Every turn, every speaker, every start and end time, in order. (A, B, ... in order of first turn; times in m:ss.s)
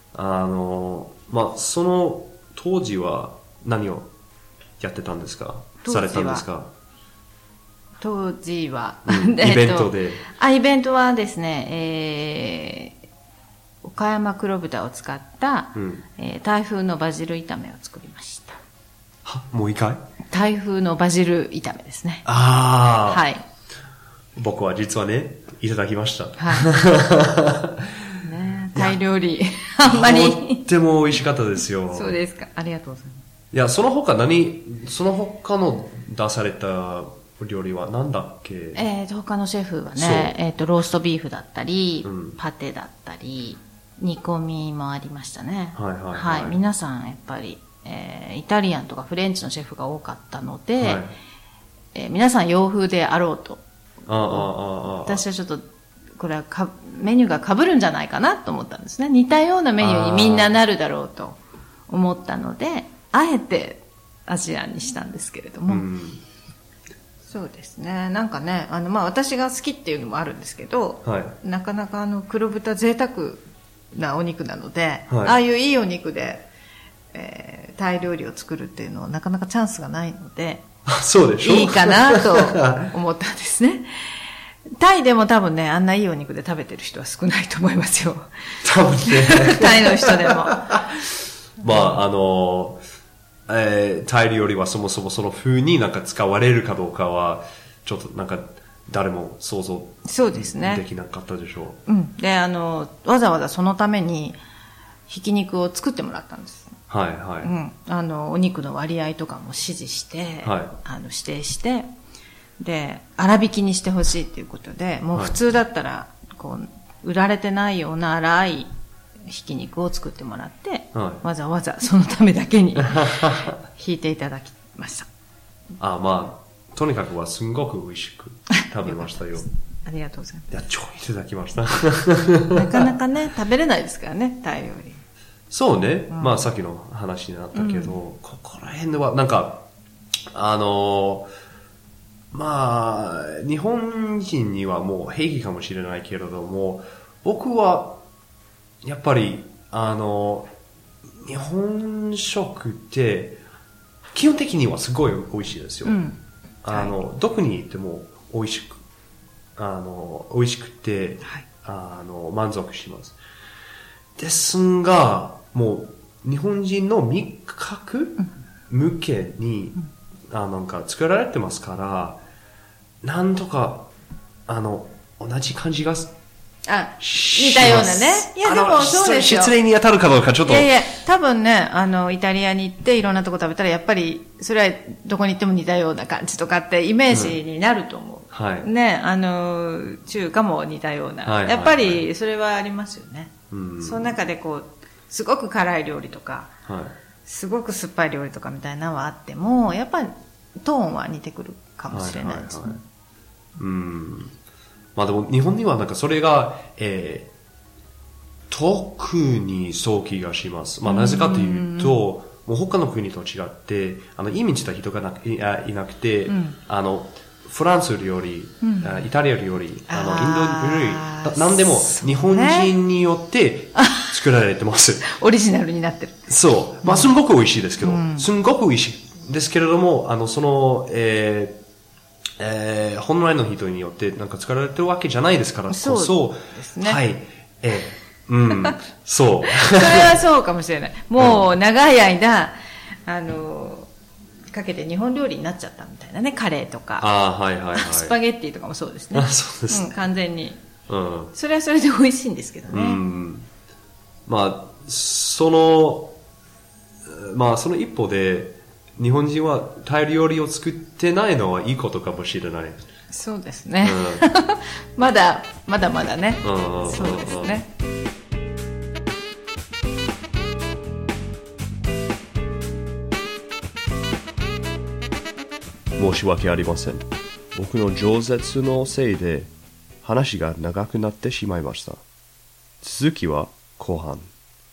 0:00.1-0:04.1 A
0:04.8-0:06.7 A
0:05.8-0:06.4 B
0:08.0-0:12.9 B
0:09.0-0:10.2 A
0:13.8-0:18.6 B
0:15.7-0:16.0 A
0:19.2-0:20.0 A
0:20.3-0:22.2 B
0:22.2-0:23.2 A
0:23.0-0:23.4 B
0:24.4-0:27.9 A
0:26.4-0:26.7 B
0:28.2-0:30.6 B
0:29.8-0:32.2 A
0:31.9-0:33.2 B
0:33.5-0:38.8 A
0:38.7-0:51.0 B
0:40.0-0:40.4 A
0:42.0-0:42.4 A
0:45.7-0:46.6 A
0:50.8-0:51.1 A
0:51.9-0:53.6 B
0:54.1-0:55.2 A
0:54.2-0:55.6 B
0:56.2-1:05.9 B
0:59.8-1:00.6 A
1:05.7-1:06.2 A
1:07.2-1:16.5 B
1:11.0-1:11.4 A
1:15.1-1:15.4 A
1:17.1-1:20.6 B
1:20.9-1:22.9 A
1:21.4-1:24.1 B
1:24.8-1:28.3 B
1:28.6-1:32.8 A
1:29.0-1:30.8 B
1:31.6-1:32.0 B
1:33.5-1:41.8 A
1:40.0-1:40.8 B
1:41.9-1:44.4 B
1:45.1-1:46.8 B
1:46.9-1:47.5 A
1:47.4-1:51.9 B
1:50.4-1:50.7 A
1:52.6-1:58.7 B
1:59.3-2:05.1 B
2:00.9-2:01.2 A
2:02.9-2:03.5 A
2:05.8-2:09.5 A
2:08.8-2:09.3 B
2:09.8-2:10.5 B
2:10.5-2:12.8 A
2:12.5-2:15.0 B
2:15.5-2:19.7 A
2:16.1-2:16.5 B
2:17.5-2:18.0 B
2:20.3-2:21.3 A
2:22.3-2:28.0 A
2:28.8-2:30.5 A
2:31.2-2:33.4 A
2:34.1-2:36.0 A
2:35.8-2:37.0 B
2:36.6-2:38.8 A
2:39.6-2:43.2 A
2:44.2-2:49.8 A
2:50.3-2:52.2 A
2:53.0-2:53.9 A
2:54.5-2:56.1 A
2:56.6-2:59.5 B
2:57.0-3:00.7 A
3:00.4-3:16.5 B
3:07.1-3:07.4 A
3:08.3-3:08.7 A
3:11.2-3:12.0 A
3:13.5-3:14.1 A
3:16.7-3:17.0 A
3:17.2-3:22.8 B
3:21.9-3:22.8 A
3:23.6-3:24.3 A
3:25.0-3:27.3 A
3:28.5-3:45.1 A
3:30.8-3:32.0 B
3:36.3-3:36.6 B
3:38.6-3:39.1 B
3:39.9-3:42.7 B
3:43.8-3:44.1 B
3:45.0-3:46.3 B
3:46.3-3:51.6 A
3:46.8-3:47.1 B
3:47.8-3:48.3 B
3:52.4-4:00.2 A
3:55.7-3:57.0 B
3:59.4-4:02.5 B
4:01.2-4:01.4 A
4:03.0-4:03.9 B
4:04.5-4:07.1 B
4:07.0-4:08.2 A
4:07.7-4:10.6 B
4:09.1-4:10.0 A
4:10.9-4:11.3 A
4:11.3-4:13.0 B
4:12.7-4:13.5 A
4:14.3-4:16.1 A
4:17.1-4:22.8 A
4:23.1-4:27.7 B
4:23.8-4:24.3 A
4:26.4-4:27.6 A
4:36.0-4:39.5 A
4:40.0-4:42.0 A
4:42.8-4:44.3 A